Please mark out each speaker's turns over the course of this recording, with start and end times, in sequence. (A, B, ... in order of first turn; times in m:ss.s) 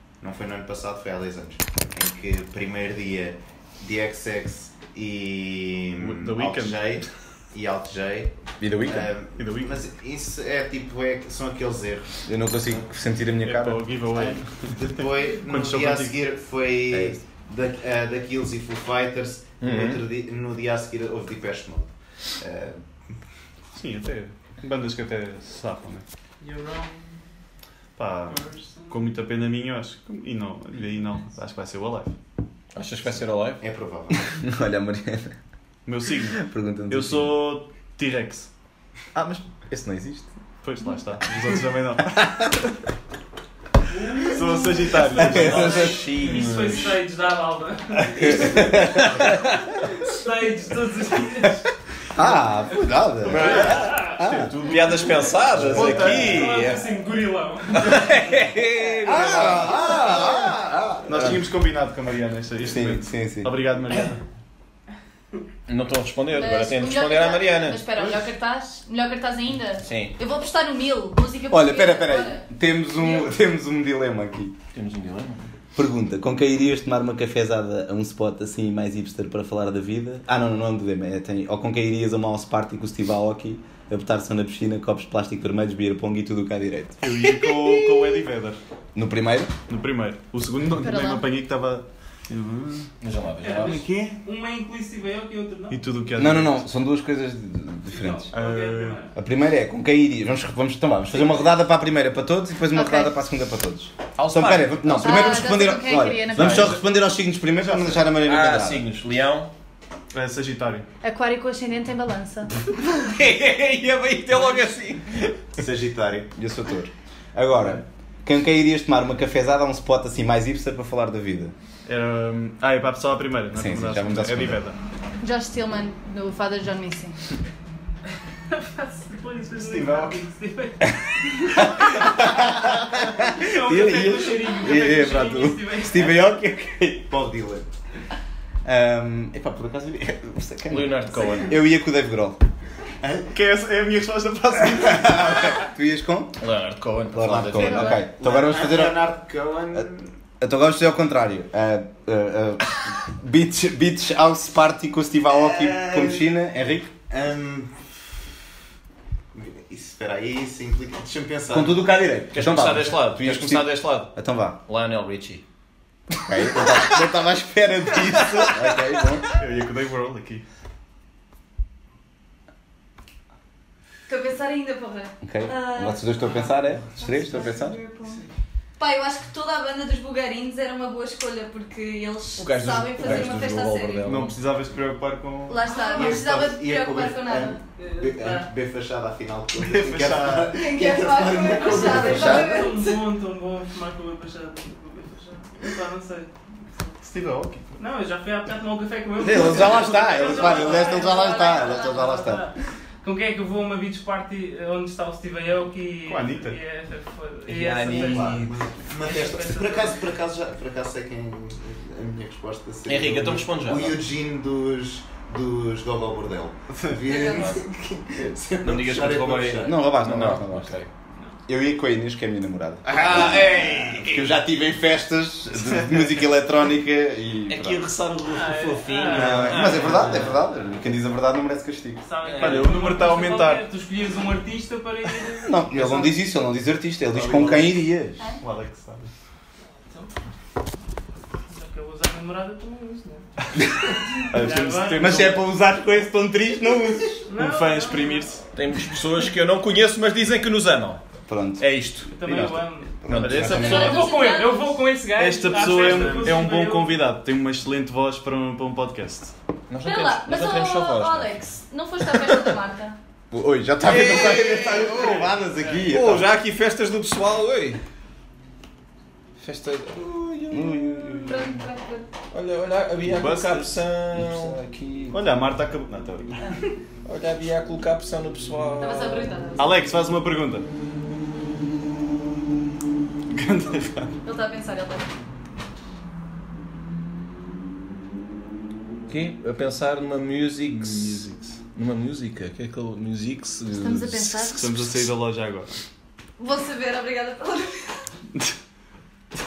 0:00.2-0:12.2 A
0:06.0-0:07.0 B
0:08.6-0:09.1 C
0:09.4-0:09.8 B
0:12.3-0:13.9 C
0:13.4-0:16.2 B
0:14.1-0:22.8 A
0:16.9-0:17.2 C
0:19.6-0:20.0 D
0:23.8-0:26.0 B
0:26.4-0:27.0 E
0:28.0-0:32.2 B
0:28.3-0:29.0 E
0:32.8-0:33.6 D
0:33.6-0:34.3 A
0:34.3-0:35.4 C
0:35.9-0:38.5 B
0:36.3-0:37.4 C
0:39.2-0:40.3 C
0:40.6-0:42.4 B
0:42.2-0:42.5 C
0:43.9-0:49.0 E
0:44.2-0:45.9 B
0:45.2-0:46.0 C
0:45.2-0:47.0 D
0:48.1-0:49.3 C
0:48.5-0:49.4 D
0:50.0-0:51.7 E
0:52.2-0:54.5 C
0:53.2-0:56.8 D
0:53.4-0:54.6 B
0:53.6-0:54.2 E
0:55.5-0:56.3 C
0:55.6-0:56.6 B
0:56.2-0:58.4 E
0:57.7-1:00.3 D
0:59.0-1:01.3 C
1:01.1-1:04.2 B
1:02.7-1:03.5 C
1:05.7-1:07.8 D
1:06.3-1:12.4 F
1:08.0-1:08.2 B
1:09.8-1:10.1 D
1:11.5-1:14.6 C
1:14.7-1:15.5 D
1:15.8-1:27.1 C
1:27.0-1:28.6 B
1:29.0-1:29.6 C
1:29.7-1:32.9 B
1:30.8-1:31.2 F
1:33.0-1:33.8 D
1:33.4-1:36.2 E
1:33.6-1:34.1 A
1:33.8-1:34.1 B
1:35.7-1:36.6 B
1:36.2-1:38.4 C
1:37.9-1:39.2 E
1:38.3-1:39.0 B
1:39.2-1:48.8 C
1:42.7-1:43.2 F
1:44.2-1:45.4 D
1:45.0-1:46.8 F
1:46.4-1:46.7 B
1:47.6-1:48.0 B
1:48.2-1:49.5 D
1:50.1-1:50.9 B
1:51.0-1:52.5 F
1:52.8-1:55.4 D
1:55.6-1:56.3 A
1:56.4-2:01.5 C
2:01.9-2:04.8 B
2:03.5-2:04.6 C
2:05.2-2:07.2 F
2:08.5-2:11.6 E
2:09.6-2:10.2 B
2:11.6-2:17.1 C
2:13.2-2:16.2 E
2:17.1-2:17.7 A
2:18.6-2:22.4 C
2:20.7-2:21.6 D
2:23.0-2:23.3 A
2:23.3-2:25.6 B
2:25.0-2:26.4 C
2:26.4-2:28.0 D
2:27.1-2:29.0 C
2:27.6-2:28.0 F
2:27.8-2:30.1 A
2:30.4-2:36.9 C
2:35.4-2:36.3 A
2:37.1-2:37.8 A
2:39.3-2:41.8 A
2:41.5-2:44.6 C
2:42.3-2:45.4 D
2:46.3-2:49.3 C
2:46.5-2:46.9 D
2:48.1-2:48.8 D
2:49.4-2:50.4 B
2:54.1-2:56.4 F
2:55.2-2:57.8 C
2:57.0-2:58.2 F
2:58.8-3:04.1 F
3:02.4-3:04.4 D
3:03.0-3:03.3 C
3:04.0-3:05.7 B
3:05.5-3:07.6 F
3:05.7-3:06.1 E
3:05.8-3:12.6 A
3:07.8-3:08.5 E
3:09.6-3:10.5 B
3:10.5-3:13.0 F
3:11.6-3:16.9 E
3:11.9-3:12.6 C
3:17.0-3:17.8 B
3:17.8-3:30.0 E
3:19.2-3:22.5 C
3:20.0-3:20.8 A
3:20.7-3:22.3 F
3:26.1-3:26.6 B
3:27.5-3:28.5 D
3:27.8-3:28.5 C
3:27.9-3:39.8 A
3:32.9-3:34.0 D
3:33.0-3:33.4 C
3:37.1-3:37.6 F
3:38.6-3:40.9 D
3:39.6-3:40.8 C
3:41.5-3:47.9 C
3:42.9-3:44.2 A
3:43.0-3:44.2 D
3:47.5-3:50.4 D
3:48.3-3:49.6 E
3:49.1-3:52.0 C
3:49.2-3:49.8 A
3:52.0-3:56.1 E
3:52.2-3:52.8 D
3:52.4-3:53.6 B
3:55.4-3:58.2 C
3:57.1-3:57.8 B
3:58.4-3:59.1 B
3:59.8-4:00.1 E
4:01.5-4:03.2 E
4:03.6-4:03.9 C
4:04.2-4:05.4 B
4:04.3-4:05.3 E
4:04.9-4:07.2 C
4:07.3-4:08.4 E
4:07.3-4:08.4 B
4:08.5-4:11.0 D
4:11.3-4:11.7 C
4:11.6-4:13.8 D
4:12.1-4:17.0 E
4:13.0-4:14.0 C
4:13.1-4:14.1 B
4:13.5-4:14.7 F
4:15.2-4:19.3 B
4:19.7-4:21.5 D
4:19.8-4:23.0 F
4:22.0-4:22.6 D
4:23.3-4:26.3 C
4:23.8-4:25.3 D
4:25.8-4:27.8 D
4:29.4-4:31.3 D
4:30.5-4:31.6 C
4:31.0-4:32.1 F
4:32.3-4:34.6 D
4:33.0-4:33.8 B
4:34.2-4:35.4 C
4:35.1-4:36.5 B
4:37.0-4:39.4 D
4:38.8-4:39.9 F
4:39.6-4:40.7 B
4:43.3-4:44.2 B
4:44.2-4:45.1 F
4:49.1-4:55.1 D
4:50.9-4:51.5 B
4:53.8-4:54.7 F
4:54.5-4:55.8 B
4:56.4-4:58.0 F